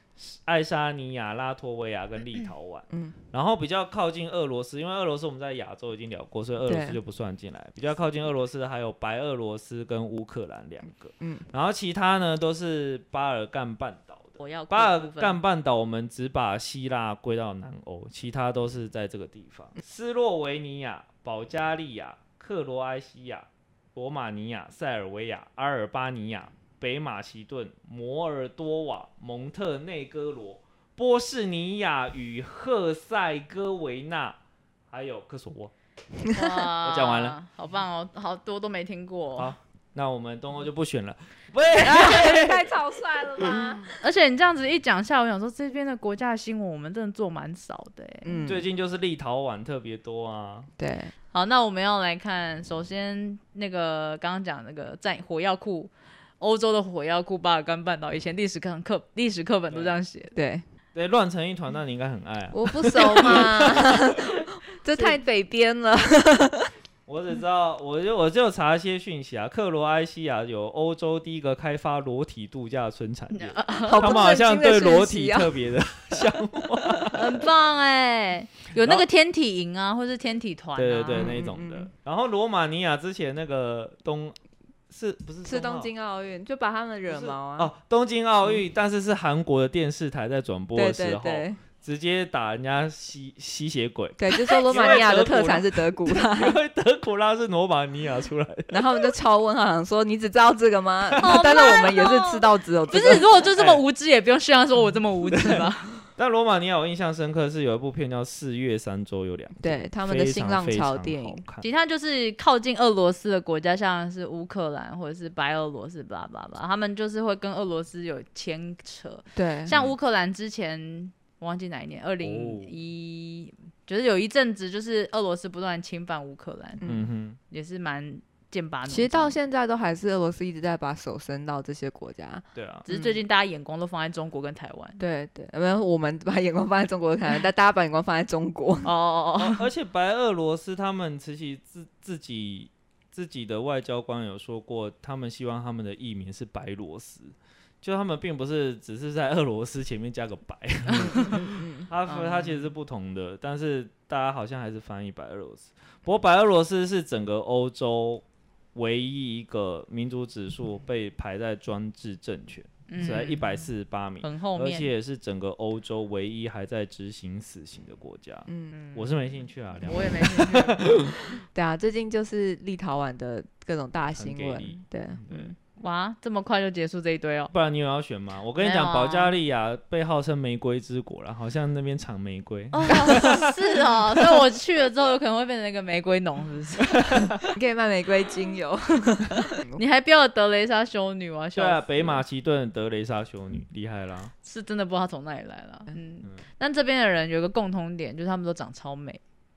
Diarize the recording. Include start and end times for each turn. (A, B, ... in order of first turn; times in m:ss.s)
0:00.2-0:34.4 A
0:06.7-0:07.0 B
0:14.4-0:15.4 C
0:34.9-0:35.7 A
0:36.3-0:39.5 C
0:36.8-0:37.4 A
0:39.4-0:42.7 A
0:41.7-0:44.0 B
0:43.8-0:48.4 C
0:48.2-0:48.6 B
0:48.4-0:50.7 A
0:50.8-0:51.1 B
0:51.3-1:00.3 C
0:59.7-1:00.0 A
1:00.4-1:00.6 B
1:01.0-1:03.9 A
1:02.5-1:06.7 B
1:07.1-1:17.4 A
1:13.4-1:14.2 C
1:13.9-1:15.5 B
1:17.1-1:21.3 C
1:18.8-1:19.0 A
1:20.8-1:24.4 A
1:21.1-1:21.9 B
1:24.9-1:25.9 A
1:25.4-1:27.7 B
1:27.1-1:38.8 A
1:30.8-1:31.6 B
1:34.2-1:36.6 B
1:34.4-1:35.0 C
1:38.7-1:43.3 B
1:41.1-1:41.5 A
1:41.2-1:46.0 C
1:43.5-1:43.8 A
1:45.3-1:51.6 A
1:49.6-1:51.4 B
1:51.6-2:06.8 C
1:59.4-1:59.7 B
1:59.7-1:59.9 A
2:02.2-2:02.8 A
2:06.8-2:07.1 B
2:06.8-2:07.4 A
2:07.5-2:09.4 C
2:08.9-2:13.2 B
2:12.6-2:12.9 A
2:12.9-2:15.0 C
2:15.0-2:18.9 B
2:18.8-2:19.6 C
2:19.4-2:38.2 A
2:30.9-2:31.9 B
2:32.1-2:32.6 C
2:38.8-2:51.2 A
2:42.9-2:43.6 C
2:44.2-2:44.9 C
2:48.5-2:48.7 B
2:48.7-2:49.1 C
2:49.9-2:50.8 C
2:51.5-2:55.5 B
2:54.2-2:55.5 A
2:55.8-2:57.5 C
2:57.5-3:03.5 A
2:58.6-2:59.4 C
3:02.7-3:07.2 C
3:06.9-3:07.4 A
3:07.5-3:09.8 B
3:09.8-3:12.2 C
3:11.6-3:14.3 A
3:14.4-3:19.2 C